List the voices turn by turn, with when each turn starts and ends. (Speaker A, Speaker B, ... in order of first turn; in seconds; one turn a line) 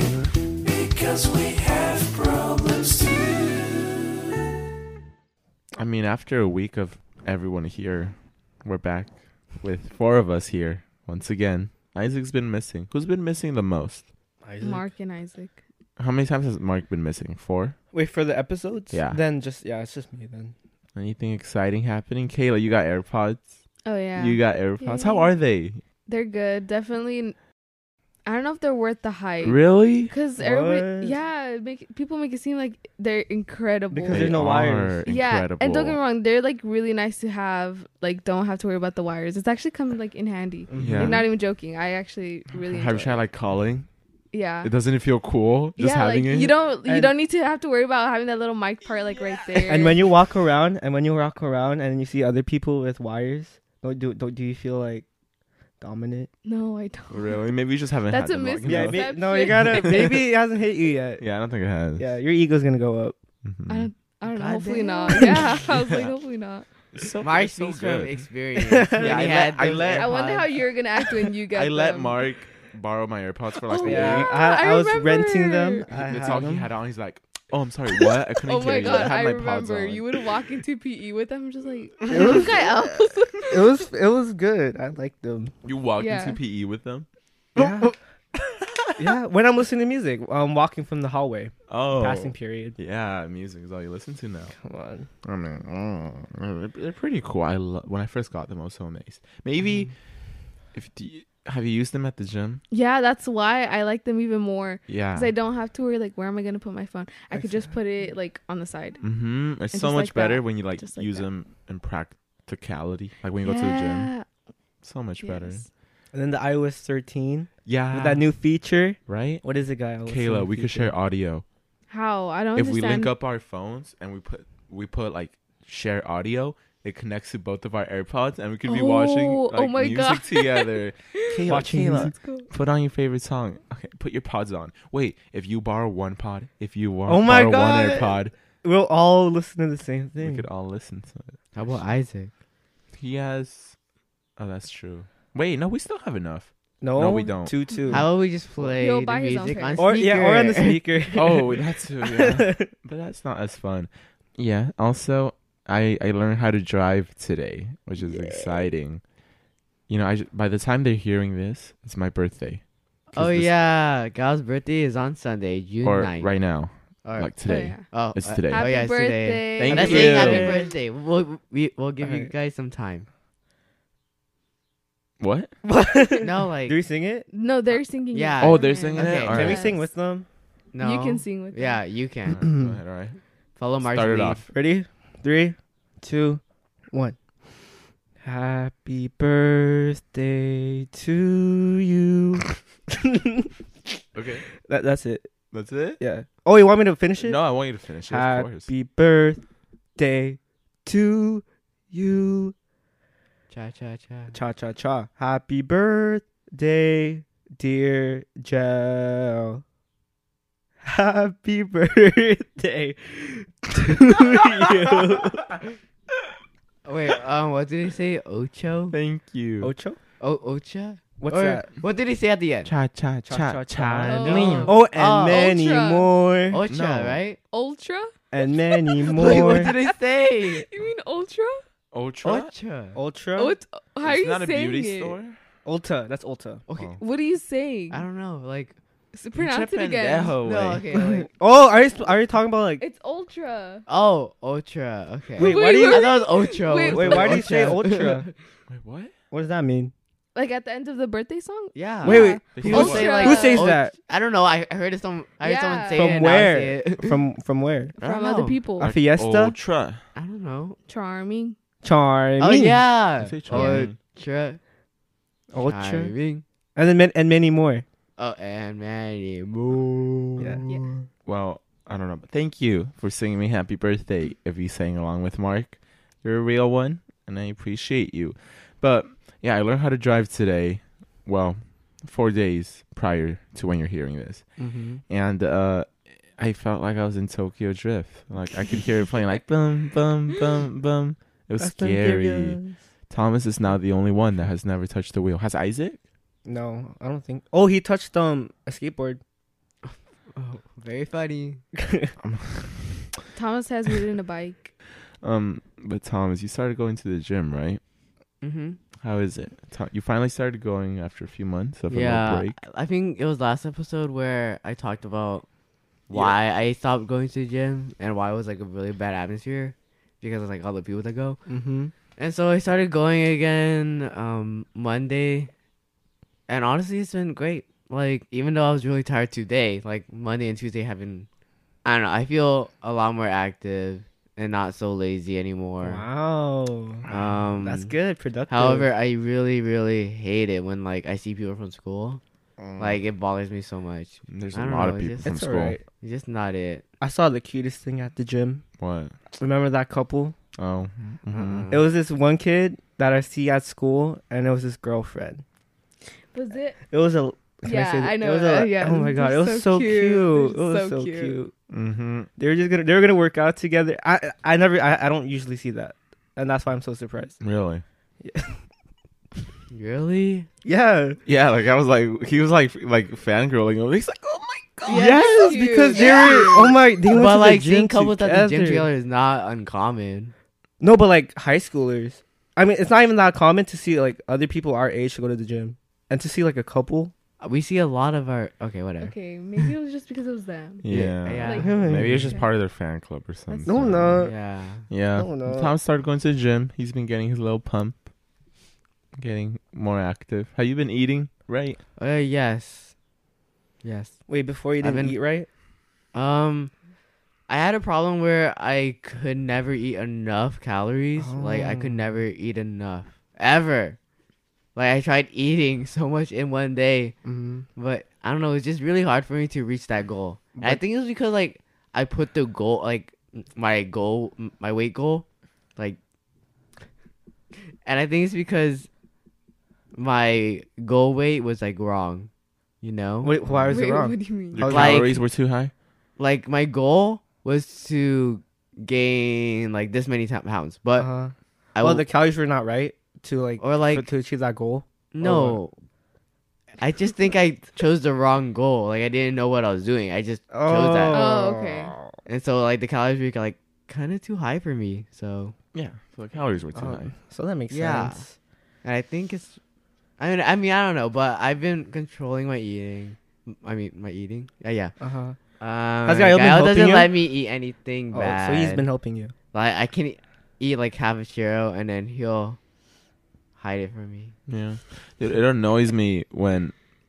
Speaker A: 0.7-2.4
Speaker A: 5.7-14.1
Speaker B: 14.4-14.9
Speaker C: 14.6-15.6
Speaker A: 16.0-17.8
Speaker B: 17.9-20.5
Speaker A: 18.9-19.2
Speaker A: 20.9-23.5
Speaker C: 23.8-25.3
Speaker A: 24.1-25.8
Speaker C: 26.1-27.4
Speaker C: 28.2-34.4
Speaker A: 29.4-30.1
Speaker B: 30.4-31.1
Speaker B: 33.9-35.0
Speaker A: 34.1-36.0
Speaker C: 35.1-43.2
Speaker B: 40.7-41.3
Speaker A: 40.8-41.3
Speaker A: 42.6-43.9
Speaker C: 44.3-44.7
Speaker A: 44.6-46.6
Speaker C: 45.8-50.0
Speaker B: 46.9-47.1
Speaker A: 49.1-50.0
Speaker B: 49.6-55.1
Speaker B: 55.8-56.3
Speaker C: 56.4-57.5
Speaker A: 57.1-60.1
Speaker C: 58.1-60.2
Speaker B: 58.6-61.3
Speaker A: 61.2-62.1
Speaker B: 62.0-63.1
Speaker A: 63.4-63.9
Speaker C: 63.7-66.7
Speaker D: 64.2-65.6
Speaker B: 65.1-65.4
Speaker A: 66.9-68.2
Speaker D: 67.2-70.5
Speaker B: 68.7-69.3
Speaker A: 69.0-70.3
Speaker C: 69.9-72.4
Speaker A: 71.5-74.3
Speaker C: 73.7-75.9
Speaker B: 73.8-76.7
Speaker A: 75.9-80.1
Speaker C: 78.4-83.8
Speaker B: 82.1-82.6
Speaker B: 83.5-85.5
Speaker A: 85.6-87.9
Speaker C: 86.0-86.4
Speaker B: 87.5-87.9
Speaker A: 88.4-89.1
Speaker B: 89.0-92.8
Speaker A: 91.7-94.5
Speaker B: 94.6-95.1
Speaker A: 95.2-99.9
Speaker A: 100.7-102.6
Speaker C: 102.7-109.0
Speaker A: 104.9-105.3
Speaker B: 107.3-107.7
Speaker A: 109.0-114.1
Speaker C: 109.7-111.3
Speaker C: 113.4-114.2
Speaker A: 114.8-115.6
Speaker C: 115.2-115.7
Speaker B: 116.1-120.9
Speaker A: 117.6-118.3
Speaker A: 119.0-119.4
Speaker A: 120.0-121.4
Speaker C: 121.9-123.1
Speaker A: 122.5-138.3
Speaker C: 128.6-132.4
Speaker B: 131.5-132.1
Speaker B: 137.1-140.5
Speaker A: 140.2-141.4
Speaker D: 141.5-142.3
Speaker A: 142.9-143.8
Speaker A: 144.4-148.0
Speaker B: 146.8-148.1
Speaker D: 147.9-150.9
Speaker C: 148.8-149.9
Speaker B: 149.8-151.6
Speaker A: 151.1-159.0
Speaker B: 152.1-152.7
Speaker A: 159.9-163.6
Speaker D: 163.1-166.4
Speaker A: 165.8-168.7
Speaker D: 167.0-173.1
Speaker C: 167.4-167.9
Speaker C: 168.5-170.7
Speaker A: 169.5-170.6
Speaker B: 172.0-172.3
Speaker A: 175.2-175.5
Speaker B: 175.6-177.3
Speaker D: 176.2-176.8
Speaker C: 177.3-179.8
Speaker D: 178.1-179.6
Speaker A: 178.4-179.7
Speaker B: 179.1-180.3
Speaker D: 180.7-182.4
Speaker C: 180.8-181.8
Speaker A: 182.3-183.2
Speaker B: 182.4-182.8
Speaker D: 183.6-184.5
Speaker A: 183.8-184.5
Speaker B: 184.5-187.4
Speaker B: 188.2-192.4
Speaker B: 193.0-193.5
Speaker A: 194.1-194.5
Speaker B: 194.6-195.3
Speaker A: 195.5-196.0
Speaker B: 196.0-197.4
Speaker A: 197.2-198.7
Speaker B: 198.1-199.4
Speaker B: 199.9-202.5
Speaker D: 203.5-204.4
Speaker B: 204.3-209.6
Speaker B: 210.8-215.5
Speaker D: 216.8-218.9
Speaker A: 218.9-219.7
Speaker B: 219.6-220.0
Speaker D: 220.2-222.7
Speaker B: 221.2-221.7
Speaker A: 222.6-224.7
Speaker B: 223.2-226.6
Speaker C: 224.0-224.7
Speaker D: 224.1-225.5
Speaker C: 225.3-226.1
Speaker D: 226.5-227.4
Speaker A: 226.7-227.2
Speaker C: 227.5-228.1
Speaker B: 228.3-229.7
Speaker C: 228.7-229.9
Speaker D: 229.1-230.7
Speaker C: 230.5-231.6
Speaker A: 231.9-232.5
Speaker D: 232.2-233.0
Speaker B: 232.9-233.6
Speaker C: 233.3-235.2
Speaker A: 234.0-235.4
Speaker B: 235.6-236.6
Speaker D: 236.7-236.9
Speaker A: 236.7-237.0
Speaker C: 237.0-238.0
Speaker D: 237.9-238.8
Speaker C: 239.1-240.4
Speaker A: 239.3-241.1
Speaker D: 240.4-241.3
Speaker B: 241.2-242.8
Speaker C: 242.8-243.8
Speaker D: 243.9-248.3
Speaker B: 245.4-246.3
Speaker C: 245.4-247.5
Speaker B: 246.8-248.3
Speaker A: 248.7-249.1
Speaker B: 249.3-249.9
Speaker C: 250.3-253.6
Speaker D: 251.7-257.2
Speaker B: 252.0-253.9
Speaker A: 252.0-253.4
Speaker C: 255.4-256.2
Speaker B: 255.9-257.9
Speaker C: 258.0-258.9
Speaker D: 258.0-258.6
Speaker A: 258.8-260.0
Speaker B: 258.8-259.6
Speaker D: 260.1-260.8
Speaker C: 260.8-261.6
Speaker B: 261.8-262.9
Speaker D: 262.4-264.6
Speaker A: 263.2-264.0
Speaker C: 263.5-263.9
Speaker B: 265.5-266.1
Speaker D: 265.6-266.4
Speaker B: 266.8-267.8
Speaker D: 268.2-271.0
Speaker B: 270.4-270.6
Speaker A: 271.2-296.0
Speaker B: 284.6-285.0
Speaker B: 291.6-292.8
Speaker B: 296.4-299.2
Speaker D: 299.8-301.6
Speaker A: 302.2-303.2
Speaker C: 303.3-304.7
Speaker A: 305.2-307.8
Speaker D: 308.4-308.8
Speaker A: 309.0-312.5
Speaker D: 311.9-315.5
Speaker A: 316.1-316.4
Speaker D: 316.1-321.4
Speaker B: 321.5-321.9
Speaker D: 322.2-325.5
Speaker D: 326.5-331.3
Speaker D: 331.8-336.0
Speaker B: 335.8-337.1
Speaker D: 337.1-337.9
Speaker B: 337.6-338.9
Speaker D: 338.5-342.2
Speaker A: 342.6-343.0
Speaker D: 342.8-345.3
Speaker A: 344.3-345.8
Speaker B: 345.2-345.8
Speaker D: 346.0-346.8
Speaker B: 347.0-348.6
Speaker A: 348.8-349.2
Speaker B: 349.4-350.3
Speaker A: 350.6-351.7
Speaker D: 351.3-351.8
Speaker B: 351.7-355.4
Speaker C: 356.3-356.8
Speaker B: 356.9-361.5
Speaker C: 357.6-361.4
Speaker A: 361.7-362.3
Speaker B: 362.4-367.4
Speaker A: 367.4-367.8
Speaker B: 368.2-368.6
Speaker D: 369.7-370.5
Speaker B: 370.6-371.2
Speaker A: 371.2-375.6
Speaker C: 374.9-376.7
Speaker B: 374.9-378.9
Speaker D: 376.0-380.3
Speaker B: 380.8-387.1
Speaker D: 387.4-389.1
Speaker C: 389.0-392.5
Speaker A: 390.8-398.1
Speaker D: 390.9-391.7
Speaker B: 391.4-392.4
Speaker C: 393.5-393.8
Speaker B: 393.7-394.4
Speaker D: 394.2-394.9
Speaker B: 395.1-395.7
Speaker A: 399.1-401.8
Speaker D: 401.9-402.9
Speaker D: 403.8-404.2
Speaker B: 404.3-405.5
Speaker D: 404.7-405.1
Speaker D: 406.1-406.7
Speaker D: 407.5-414.0
Speaker B: 411.2-412.2
Speaker D: 414.7-417.1
Speaker B: 417.2-417.6
Speaker D: 417.7-426.0
Speaker B: 420.6-420.8
Speaker D: 427.8-428.9
Speaker D: 429.9-432.3
Speaker D: 432.8-433.3
Speaker B: 433.2-435.2
Speaker A: 433.4-433.7
Speaker C: 433.7-434.7
Speaker A: 434.5-435.7
Speaker D: 434.7-435.2
Speaker D: 436.2-441.1
Speaker B: 440.9-445.6
Speaker D: 441.7-442.1
Speaker D: 443.6-444.1
Speaker D: 445.1-445.8
Speaker D: 446.8-451.4
Speaker B: 450.5-452.1
Speaker C: 451.1-451.9
Speaker D: 452.2-455.5
Speaker A: 455.7-457.1
Speaker B: 456.7-458.3
Speaker D: 457.7-458.2
Speaker D: 458.8-459.6
Speaker D: 460.2-464.9
Speaker B: 465.0-465.4
Speaker D: 465.6-468.9
Speaker B: 466.0-467.1
Speaker B: 468.1-469.3
Speaker D: 469.5-472.6
Speaker D: 473.6-474.3
Speaker A: 474.5-476.7